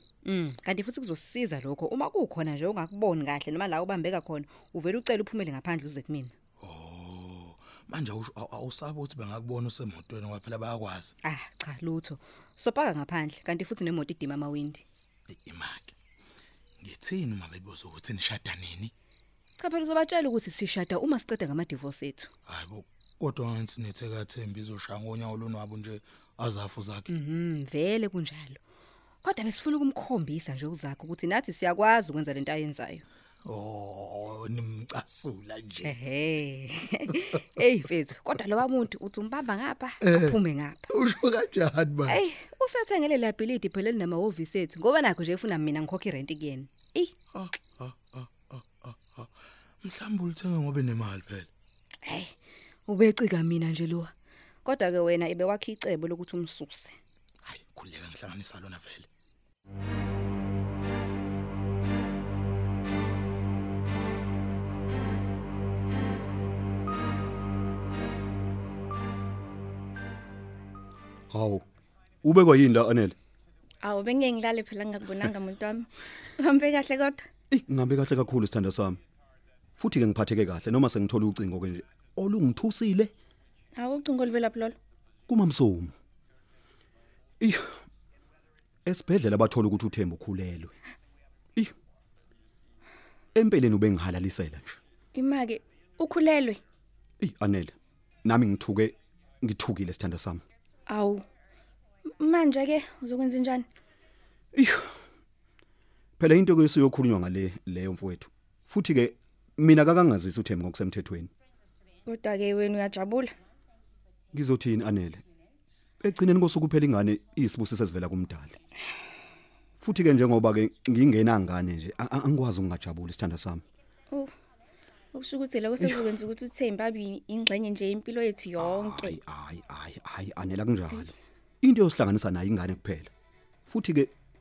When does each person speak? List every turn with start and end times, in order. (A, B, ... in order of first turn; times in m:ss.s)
0:00.2-0:06.3 A
0:06.6-0:11.1 B
0:11.2-0:14.8 A
0:15.3-0:15.9 B
0:16.8-0:18.9 B
0:19.6-0:22.3 A
0:22.5-0:27.1 B
0:27.1-0:28.6 A
0:29.2-0:33.0 A
0:33.4-0:36.0 B
0:35.8-0:40.9 A
0:40.0-0:40.4 B
0:40.9-0:42.2 B
0:42.1-0:47.1 A
0:47.3-0:49.3 B
0:49.8-0:51.5 B
0:52.0-0:52.3 A
0:52.9-0:54.1 A
0:54.6-0:56.9 A
0:57.4-0:59.1 B
1:11.3-1:11.6 C
1:12.2-1:13.1 C
1:13.8-1:17.3 D
1:17.5-1:19.0 C
1:19.8-1:23.1 C
1:23.8-1:24.8 D
1:25.3-1:25.9 C
1:27.4-1:27.8 C
1:28.8-1:30.7 C
1:33.3-1:34.8 C
1:35.1-1:36.6 D
1:37.2-1:40.4 C
1:40.9-1:41.2 D
1:42.2-1:43.7 D
1:44.5-1:44.9 C
1:46.2-1:51.3 C
1:52.0-1:53.3 D
1:54.3-1:55.2 C
1:56.0-1:58.6 C
1:59.8-2:03.6 C
2:05.1-2:09.2 D
2:08.6-2:13.1 C
2:13.7-2:14.1 C